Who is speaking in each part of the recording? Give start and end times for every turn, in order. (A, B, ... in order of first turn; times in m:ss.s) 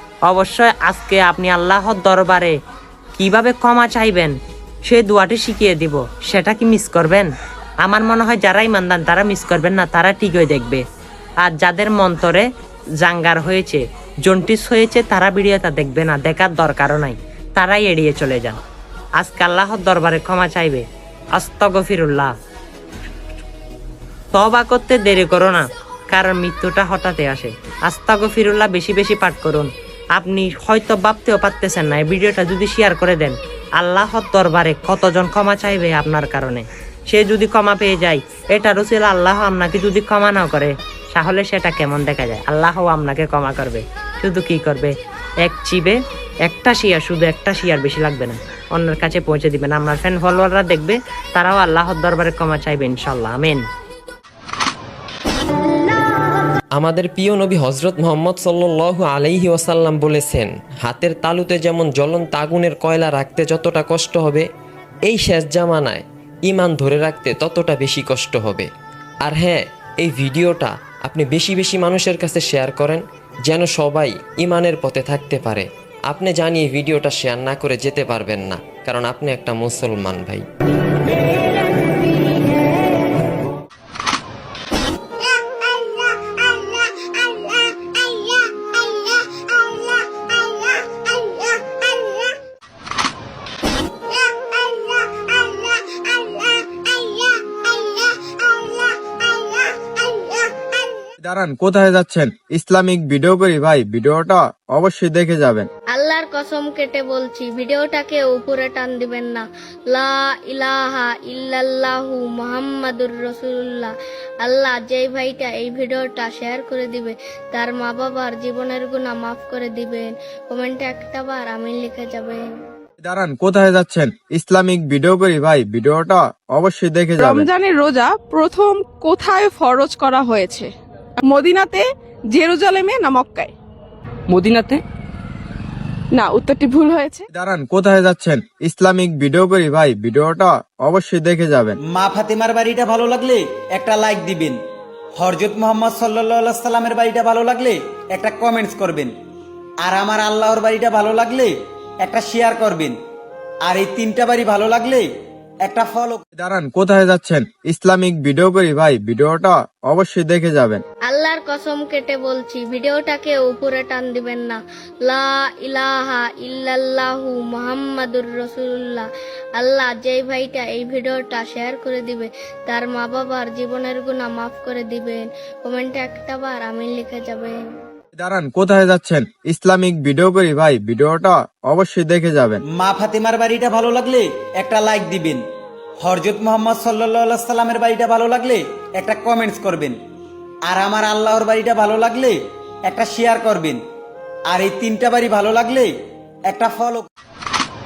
0:00.3-0:02.6 A
0:03.2-0:04.3 A
0:04.9-0:07.3 A
0:07.8-0:10.8 A
0:11.4-0:12.5 A
0:13.0-0:18.6 A
0:19.2-0:20.8 A
0:21.4-0:22.3 A
0:24.3-0:53.6 A
0:56.8-1:04.5 B
1:05.0-1:08.7 B
1:09.2-1:20.4 B
1:41.2-1:45.7 C
1:45.9-2:02.4 D
2:03.0-2:07.5 C
2:07.2-2:10.7 E
2:11.2-2:13.5 E
2:14.3-2:14.8 E
2:16.1-2:17.2 E
2:17.3-2:21.8 C
2:21.9-2:24.6 F
2:25.2-2:29.1 F
2:29.8-2:31.5 F
2:32.0-2:33.0 F
2:33.6-2:35.0 F
2:35.6-2:36.2 F
2:36.4-2:40.8 C
2:41.1-2:57.6 D
2:58.2-3:02.6 C
3:02.8-3:05.4 F
3:06.0-3:10.0 F
3:10.7-3:13.8 F
3:14.5-3:15.9 F
3:16.5-3:17.1 F